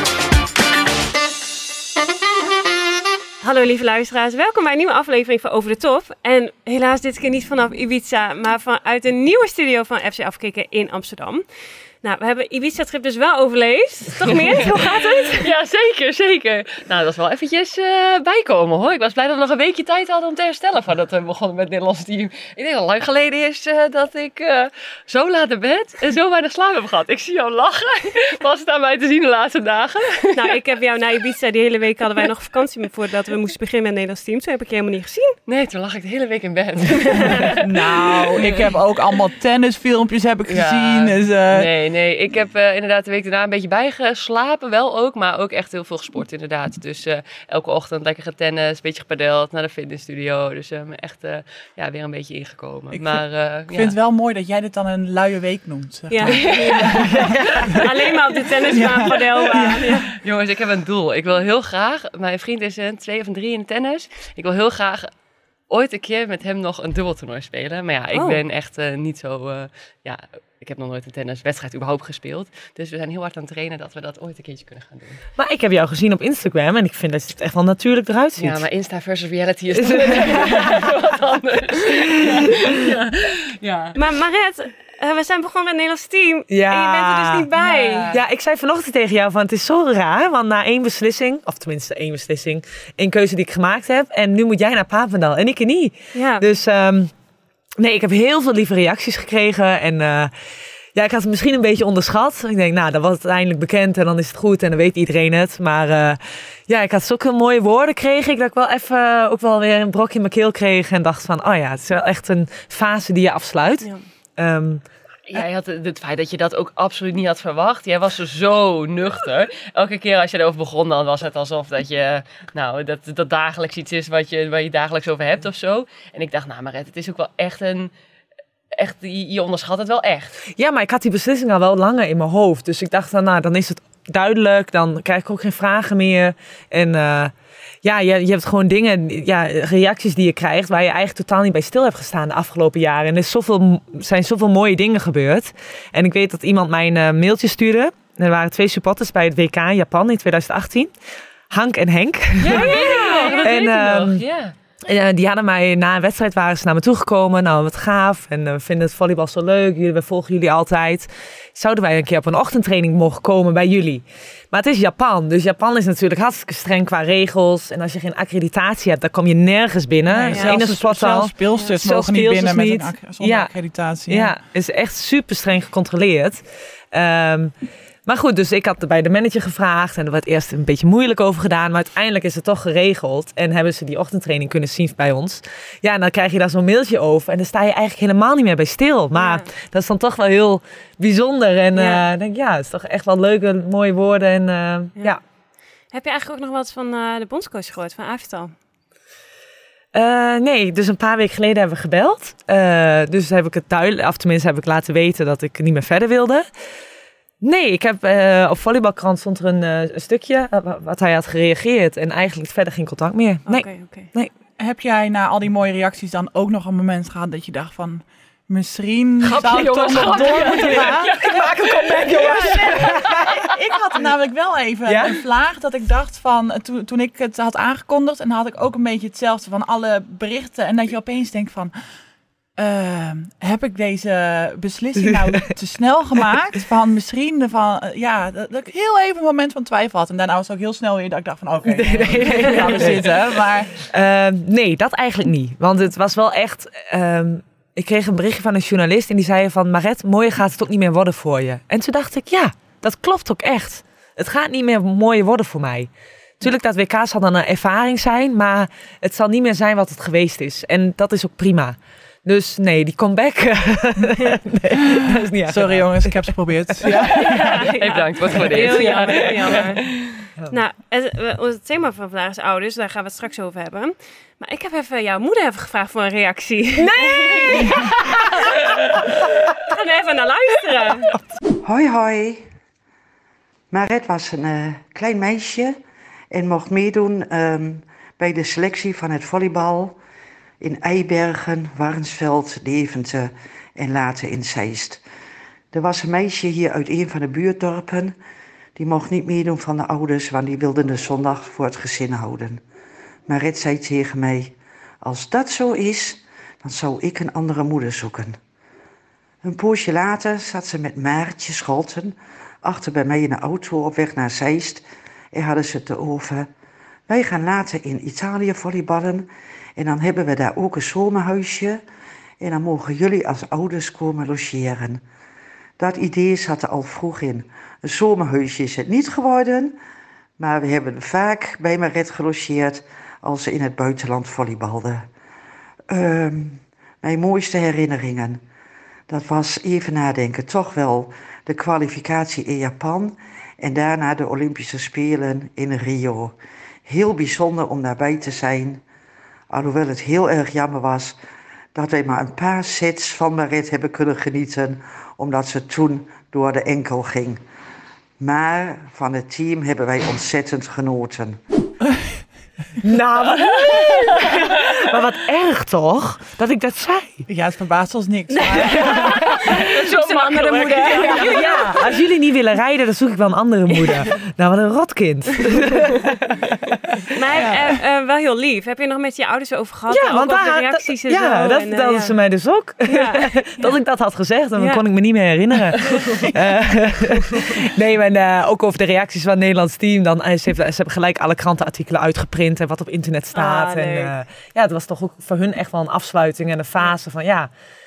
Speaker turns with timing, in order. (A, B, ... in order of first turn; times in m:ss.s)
0:03.4-0:11.5 A
0:12.0-0:15.5 A
0:14.3-0:14.6 B
0:15.3-0:30.5 B
0:30.3-0:35.4 A
0:35.5-0:38.8 B
0:37.1-0:37.5 A
0:37.6-0:41.7 C
0:40.5-0:53.9 B
0:52.9-0:57.8 C
0:56.1-1:00.1 A
0:56.3-0:57.8 B
0:58.7-1:00.0 C
1:00.2-1:05.1 B
1:05.7-1:15.2 B
1:08.1-1:08.4 A
1:15.4-1:18.6 D
1:18.4-1:24.0 B
1:19.8-1:20.7 D
1:22.4-1:22.6 D
1:23.9-1:28.1 A
1:26.5-1:27.5 D
1:27.5-1:28.2 C
1:28.1-1:37.1 D
1:36.1-1:36.5 A
1:37.8-1:40.3 D
1:40.9-1:54.8 D
1:55.3-2:07.9 B
2:08.7-2:10.4 B
2:10.5-2:17.3 D
2:17.8-2:30.9 D
2:31.5-2:34.2 D
2:32.4-2:34.5 B
2:32.5-2:33.5 A
2:34.8-2:53.5 D
2:50.1-2:54.3 C
2:54.0-2:57.5 D
2:58.0-3:15.2 D
3:09.1-3:09.5 A
3:11.7-3:12.0 A
3:15.9-3:18.5 A
3:19.9-3:26.5 D
3:27.4-3:34.3 D
3:33.5-3:34.1 A
3:34.6-3:41.4 C
3:39.2-3:43.3 B
3:40.0-3:43.4 D
3:42.1-3:51.7 C
3:44.8-3:45.2 D
3:52.6-4:03.8 C
4:01.6-4:15.9 D
4:16.4-4:27.2 D
4:25.5-4:27.6 C
4:27.1-4:29.9 A
4:27.8-4:30.2 B
4:30.5-4:38.5 A
4:36.8-4:38.6 D
4:39.6-4:41.1 A
4:41.6-4:42.5 E
4:43.7-4:45.8 E
4:46.3-4:50.0 E
4:50.6-4:55.0 E
4:55.7-4:58.2 E
4:58.8-5:02.6 E
5:03.3-5:08.4 E
5:09.4-5:16.5 E
5:17.1-5:21.8 E
5:22.4-5:25.0 E
5:25.8-5:29.8 E
5:30.4-5:35.1 E
5:35.9-5:38.4 E
5:39.1-5:48.8 E
5:49.5-5:51.2 E
5:51.7-5:57.4 E
5:58.2-6:01.4 E
6:02.8-6:07.2 D
6:03.4-6:04.3 B
6:07.3-6:09.2 C
6:08.4-6:09.6 D
6:08.6-6:12.0 A
6:08.9-6:11.7 B
6:10.9-6:16.2 D
6:17.1-6:22.2 A
6:17.4-6:17.7 C
6:19.9-6:37.5 D
6:22.8-6:23.3 A
6:24.6-6:24.8 A
6:33.3-6:34.2 A